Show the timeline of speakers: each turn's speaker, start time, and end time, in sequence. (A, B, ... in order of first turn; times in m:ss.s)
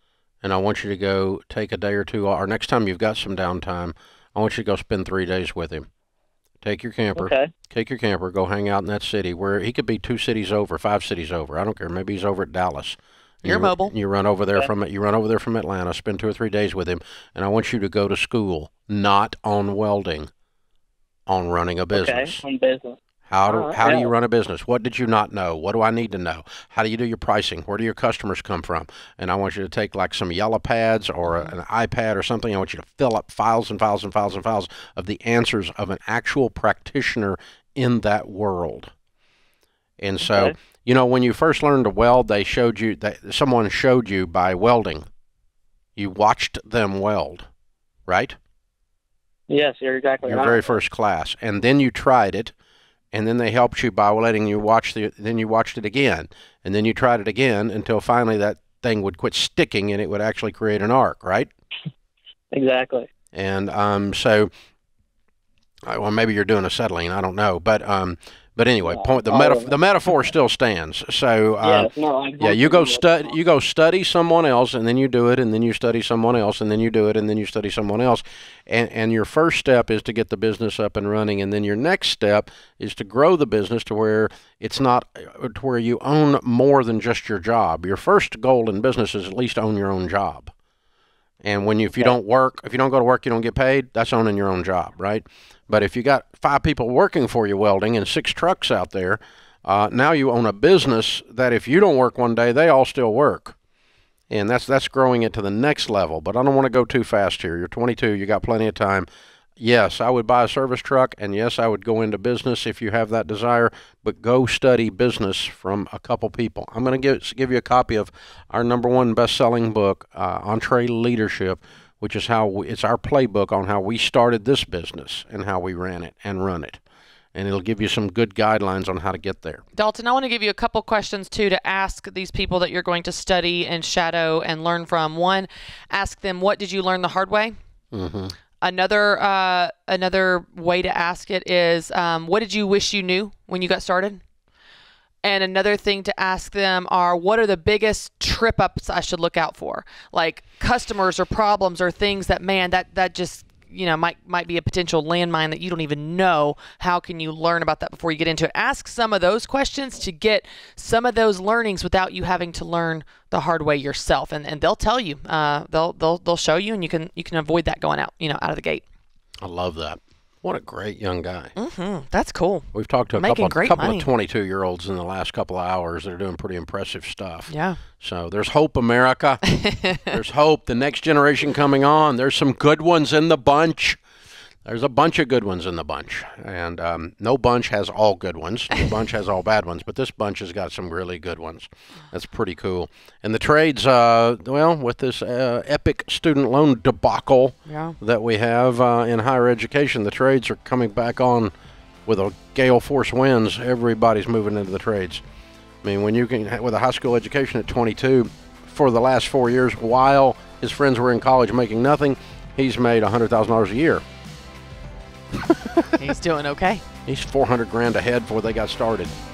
0:00.4-0:05.9 A
0:06.6-0:20.3 A
0:07.2-0:07.5 B
0:13.4-0:13.9 C
0:21.3-0:22.4 A
0:21.9-0:24.1 B
0:23.3-0:38.9 A
0:31.3-0:31.5 C
0:40.0-0:45.0 A
0:40.2-0:40.5 B
0:46.0-0:47.5 A
0:48.1-0:48.4 A
0:49.5-0:50.8 B
0:50.2-0:52.5 A
0:53.1-1:01.5 A
1:02.5-1:03.1 B
1:03.3-1:04.5 A
1:05.9-1:30.5 A
1:08.8-1:10.3 B
1:11.6-1:13.4 B
1:31.4-1:43.6 A
1:44.3-1:49.1 A
1:49.6-2:06.8 A
2:07.3-2:09.6 A
2:09.7-2:17.5 C
2:17.9-2:18.3 A
2:18.6-2:24.2 C
2:25.2-2:48.8 C
2:49.4-2:51.5 A
2:51.6-2:54.1 C
2:52.7-2:59.5 A
2:57.5-2:57.8 C
2:59.6-3:00.0 C
3:00.1-3:04.0 A
3:04.6-3:21.5 A
3:17.6-3:18.0 C
3:22.0-3:25.2 A
3:25.8-3:34.0 A
3:35.9-3:36.8 C
3:37.0-3:39.1 A